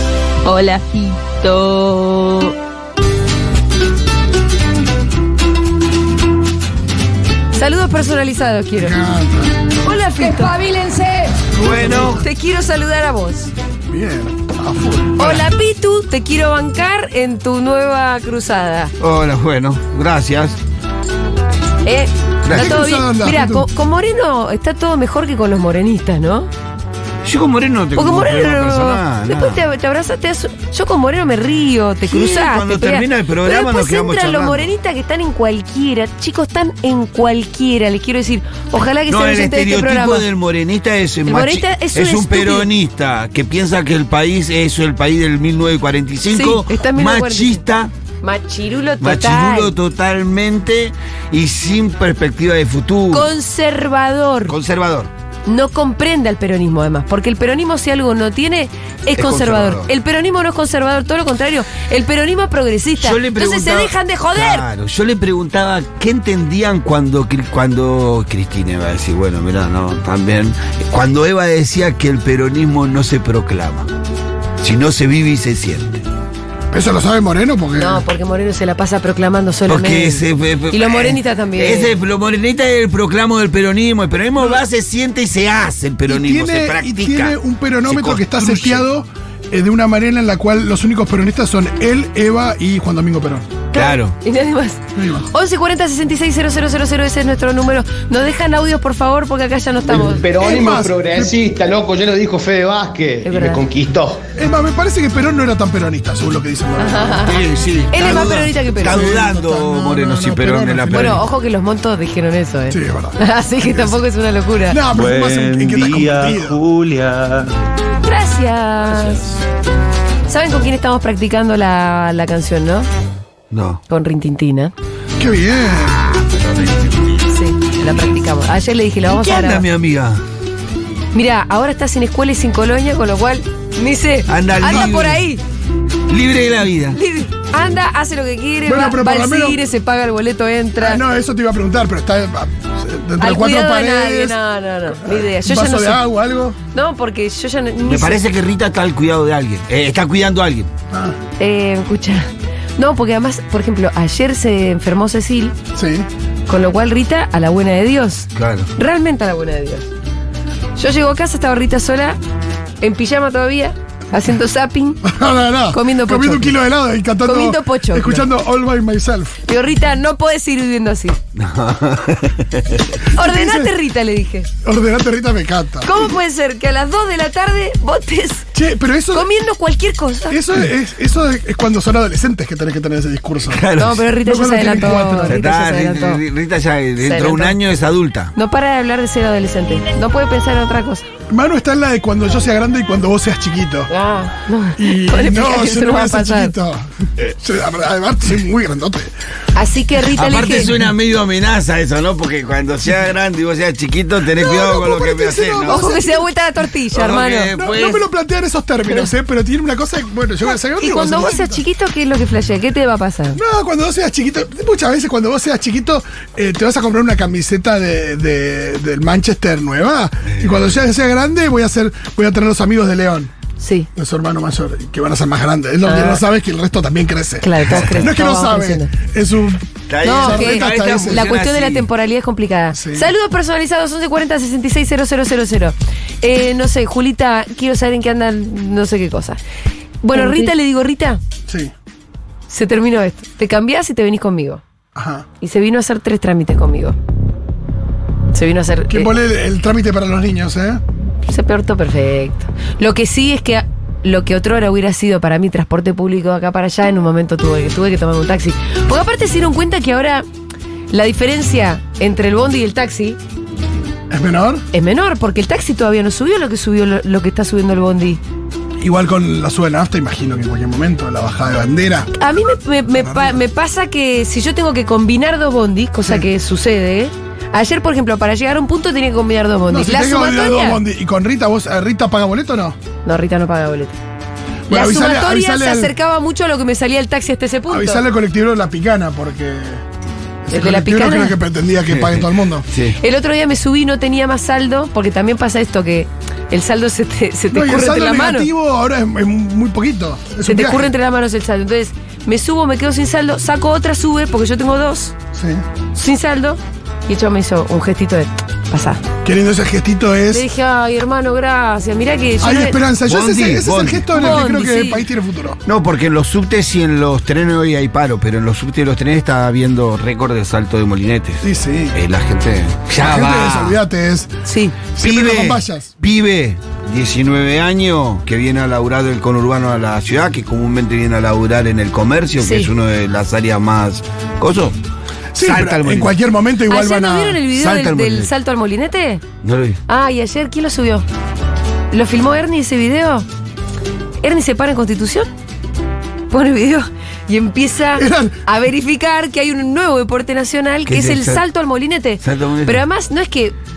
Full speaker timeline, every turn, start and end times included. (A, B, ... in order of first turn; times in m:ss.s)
0:00.4-0:02.6 A
0:07.5-0:09.0 B
0:08.8-0:09.5 C
0:09.8-0:10.9 B
0:10.7-0:11.1 A
0:11.6-0:12.2 C
0:11.6-0:12.2 D
0:12.2-0:13.5 B
0:13.9-0:15.5 C
0:15.2-0:18.9 B
0:19.0-0:20.6 D
0:21.8-0:26.5 B
0:22.4-0:22.8 D
0:22.5-0:23.7 C
0:27.2-0:29.6 D
0:28.0-0:40.3 B
0:32.0-0:34.7 D
0:39.1-0:47.9 D
0:41.3-0:42.7 B
0:46.3-0:47.6 B
0:48.2-0:49.8 B
0:49.0-0:53.3 D
0:53.1-0:54.6 B
0:54.5-0:55.1 D
0:55.5-1:04.7 B
0:59.2-0:59.9 D
1:03.0-1:13.9 D
1:14.6-1:16.0 D
1:16.7-1:18.0 C
1:17.8-1:22.0 B
1:19.7-1:28.9 D
1:26.1-1:33.6 C
1:33.7-1:40.3 B
1:33.7-1:34.2 D
1:35.0-1:35.3 C
1:39.9-1:44.3 E
1:40.3-1:41.4 C
1:43.2-1:43.6 B
1:44.3-1:47.4 C
1:46.8-1:49.2 B
1:47.2-1:51.2 D
1:48.3-1:51.2 C
1:50.9-1:54.8 B
1:52.7-1:54.0 C
1:54.7-1:56.6 C
1:54.9-1:57.5 F
1:58.0-1:59.2 B
2:00.3-2:02.9 B
2:03.5-2:03.8 D
2:03.9-2:04.7 B
2:05.2-2:06.0 C
2:06.1-2:07.0 D
2:07.3-2:09.6 B
2:09.1-2:10.2 D
2:11.1-2:15.4 B
2:14.3-2:15.2 D
2:16.1-2:17.0 D
2:16.9-2:21.0 B
2:18.7-2:19.6 C
2:20.8-2:24.4 C
2:23.2-2:26.0 B
2:25.0-2:26.6 C
2:26.7-2:28.2 B
2:27.8-2:30.7 D
2:30.9-2:31.2 C
2:31.4-2:35.6 B
2:35.8-2:36.1 C
2:36.5-2:39.9 B
2:38.4-2:38.7 D
2:40.8-2:42.2 B
2:42.8-2:45.0 B
2:45.0-2:49.4 C
2:45.7-2:46.6 B
2:47.2-2:48.3 B
2:49.5-2:51.2 B
2:51.4-2:53.0 D
2:53.1-2:53.7 C
2:53.1-2:54.5 B
2:54.6-2:56.2 C
2:55.8-2:58.4 B
2:58.5-2:59.3 C
2:59.1-3:00.4 B
3:00.3-3:03.6 C
3:03.4-3:04.1 D
3:03.8-3:06.2 B
3:04.2-3:05.4 C
3:04.7-3:08.3 D
3:07.0-3:07.6 B
3:08.4-3:11.1 B
3:11.3-3:13.9 C
3:13.9-3:16.5 B
3:14.8-3:19.1 C
3:19.5-3:20.8 B
3:20.2-3:25.9 D
3:24.3-3:26.3 C
3:25.7-3:27.7 B
3:26.9-3:28.0 D
3:27.5-3:31.6 C
3:30.8-3:33.4 B
3:33.4-3:43.3 C
3:40.3-3:40.8 D
3:43.6-3:43.9 B
3:44.0-3:51.3 C
3:45.8-3:46.2 B
3:47.4-3:48.9 B
3:47.8-3:48.0 D
3:49.9-3:51.9 D
3:50.0-3:59.4 B
3:52.7-3:53.1 C
4:00.0-4:01.2 B
4:01.5-4:01.7 C
4:02.5-4:04.6 B
4:05.0-4:05.3 C
4:05.4-4:07.0 B
4:08.3-4:09.1 B
4:08.9-4:10.8 C
4:11.2-4:20.2 B
4:20.9-4:23.2 B
4:24.1-4:24.6 C
4:24.7-4:28.2 B
4:28.8-4:32.1 C
4:32.2-4:40.8 B
4:33.0-4:33.4 C
4:39.7-4:42.8 C
4:43.0-4:44.0 B
4:44.7-4:46.0 C
4:44.7-4:48.0 B
4:47.7-4:49.8 C
4:50.5-4:52.7 C
4:50.5-4:51.4 B
4:51.9-4:53.0 D
4:53.0-4:58.5 B
4:57.5-5:00.9 C
5:00.4-5:05.2 B
5:05.3-5:05.6 C
5:05.9-5:09.0 B
5:09.2-5:10.4 C
5:10.3-5:12.8 B
5:12.4-5:15.6 C
5:13.1-5:14.5 D
5:14.1-5:15.1 B
5:15.7-5:23.8 D
5:21.4-5:22.0 C
5:23.0-5:24.3 C
5:24.4-5:24.8 B
5:25.0-5:25.9 C
5:25.0-5:34.8 D
5:32.4-5:32.7 B
5:35.3-5:37.4 C
5:35.4-5:36.2 D
5:36.7-5:39.2 B
5:37.5-5:38.3 D
5:39.4-5:39.8 D
5:39.9-5:41.0 B
5:41.9-5:43.3 B
5:44.2-5:45.3 B
5:46.3-5:53.6 B
5:48.0-5:48.4 C
5:50.9-5:51.4 D
5:52.2-5:52.8 D